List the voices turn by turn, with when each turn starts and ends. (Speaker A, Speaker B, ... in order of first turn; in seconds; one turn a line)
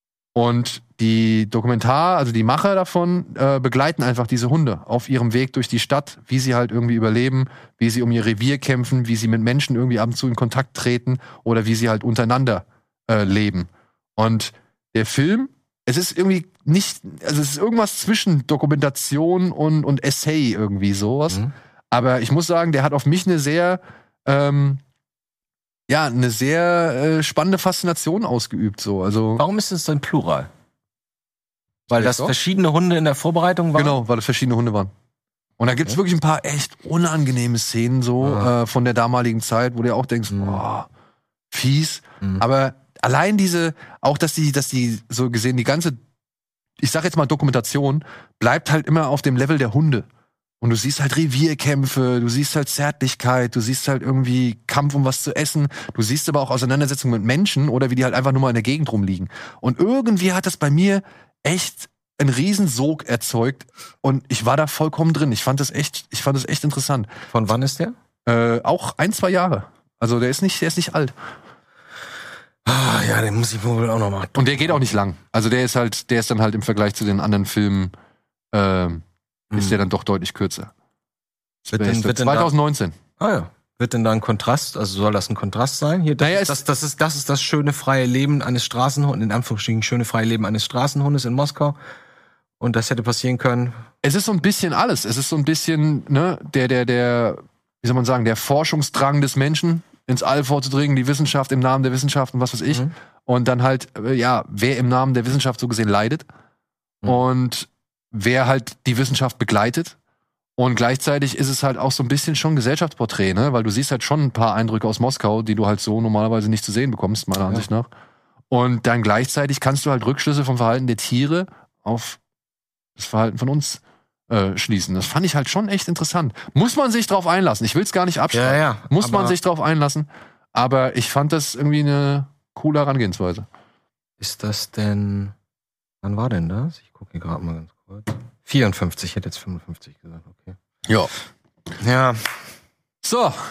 Speaker A: 0.3-24.8
Speaker A: 25.9-29.4
Speaker B: 29.4-30.5
Speaker A: 31.9-32.3
Speaker B: 31.9-34.0
Speaker A: 33.8-34.9
Speaker A: 35.6-40.9
Speaker B: 38.2-38.5
Speaker B: 40.3-40.6
Speaker A: 41.5-46.0
Speaker A: 46.8-50.0
Speaker A: 50.6-67.1
Speaker B: 67.3-67.9
Speaker A: 68.2-71.1
Speaker B: 72.7-74.8
Speaker A: 74.3-77.9
Speaker A: 78.5-80.7
Speaker B: 79.5-79.8
Speaker A: 81.7-83.0
Speaker B: 81.7-82.5
Speaker B: 83.2-91.8
Speaker A: 86.2-86.6
Speaker B: 92.6-93.8
Speaker A: 94.0-106.2
Speaker A: 107.0-110.0
Speaker A: 110.6-117.9
Speaker A: 118.5-122.2
Speaker A: 123.0-133.4
Speaker B: 128.3-129.3
Speaker B: 134.2-135.3
Speaker B: 136.0-140.6
Speaker A: 140.8-141.1
Speaker B: 141.8-142.3
Speaker A: 143.0-143.4